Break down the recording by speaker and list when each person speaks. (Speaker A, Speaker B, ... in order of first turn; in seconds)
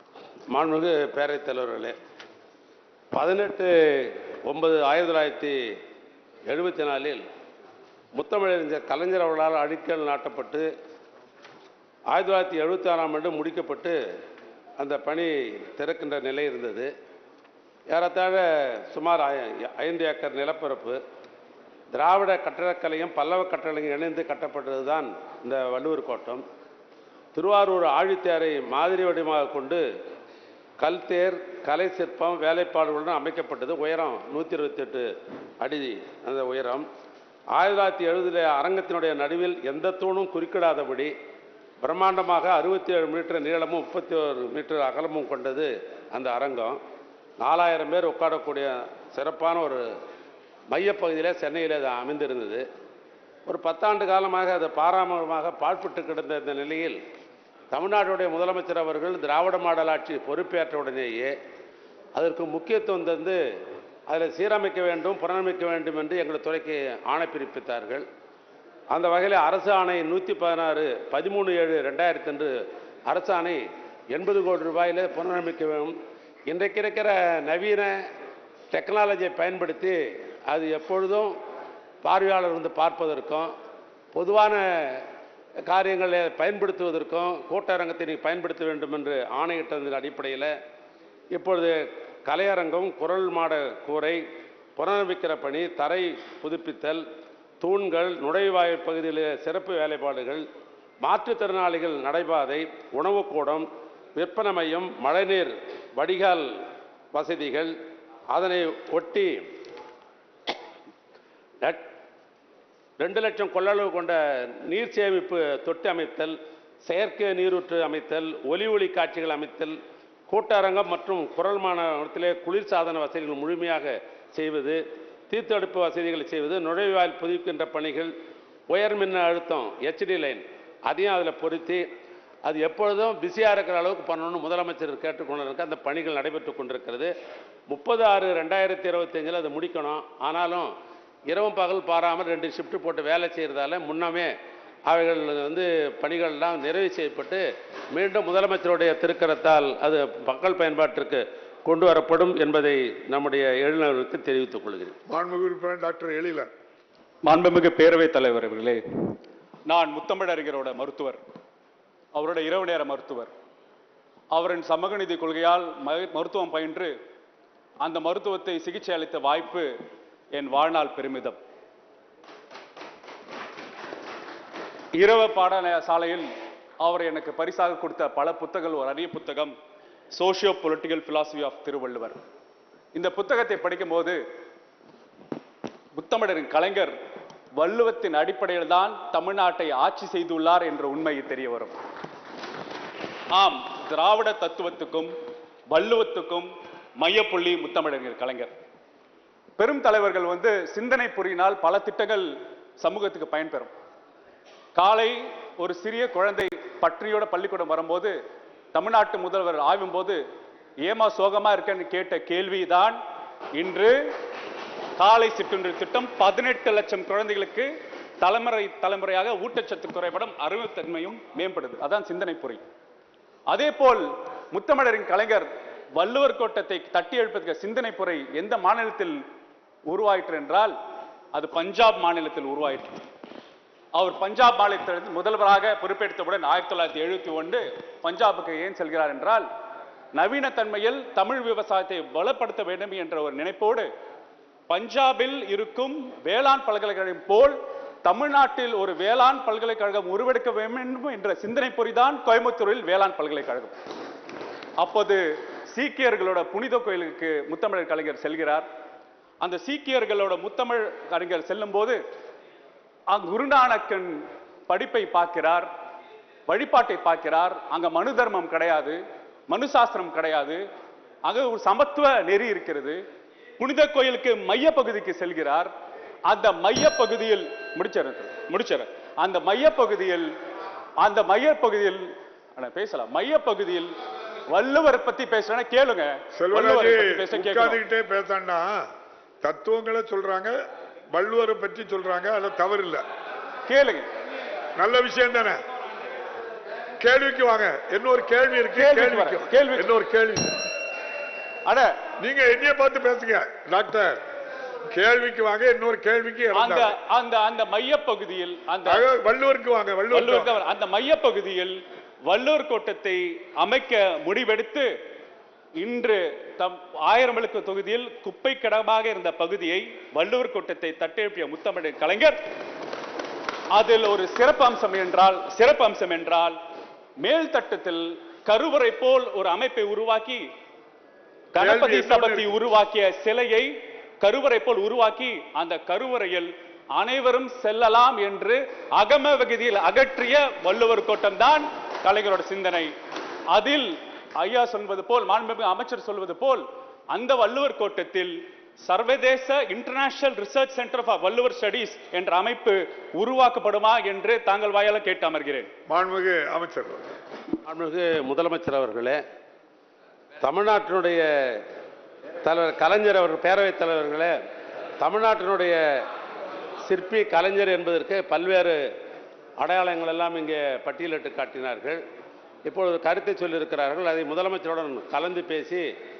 Speaker A: 0.5-1.9, 3.1-5.6, 6.5-7.2, 8.1-10.7, 12.1-14.0, 14.8-16.9, 17.9-21.0, 21.9-26.4, 27.3-29.8, 30.8-35.1, 35.6-36.9, 37.5-41.1, 41.8-46.8, 47.4-49.9, 50.7-52.6, 53.5-57.0, 57.7-61.3, 62.1-63.4, 64.1-68.0, 68.9-72.5, 73.1-75.9, 76.5-78.0, 78.7-81.3, 82.0-83.5, 84.1-85.0, 85.7-90.5, 91.3-94.2, 94.8-97.0, 97.6-100.4, 101.0-106.5, 107.1-107.7, 108.3-109.4, 113.0-119.8, 120.3-128.1, 128.7-131.8, 132.4-137.1, 137.7-140.7, 141.3-144.3, 144.9-154.9, 357.6-359.2, 360.4-361.6, 362.4-364.3, 365.0-366.1, 366.8-368.8, 369.6-372.0, 372.6-375.9
Speaker B: 155.1-156.5, 286.3-288.8, 289.4-290.6, 291.1-293.0, 294.8-295.6, 297.0-300.6, 302.2-304.2, 304.9-306.9, 308.9-310.5, 331.6-332.5, 355.9-357.1
Speaker C: 157.2-158.8, 159.7-161.2, 162.1-163.3, 164.3-166.9, 167.8-169.7, 170.3-171.4, 174.9-179.5, 180.1-182.2, 182.9-184.2, 185.9-186.9, 187.5-191.8, 193.3-195.1, 195.7-198.5, 199.6-203.7, 204.7-208.1, 208.7-210.2, 210.8-213.0, 213.5-214.0, 215.0-222.6, 223.5-229.2, 229.9-230.7, 231.3-233.0, 233.9-239.4, 240.1-243.9, 244.7-253.8, 254.8-258.6, 259.4-262.0, 263.1-265.7, 266.5-270.6, 271.2-273.0, 273.6-275.7, 276.3-280.3, 281.0-283.9, 284.5-287.8, 293.6-294.1, 298.8-299.9, 301.6-301.9, 306.5-309.0, 310.1-314.9, 315.8-322.4, 323.7-326.6, 327.2-330.4, 331.5-342.9, 343.5-355.7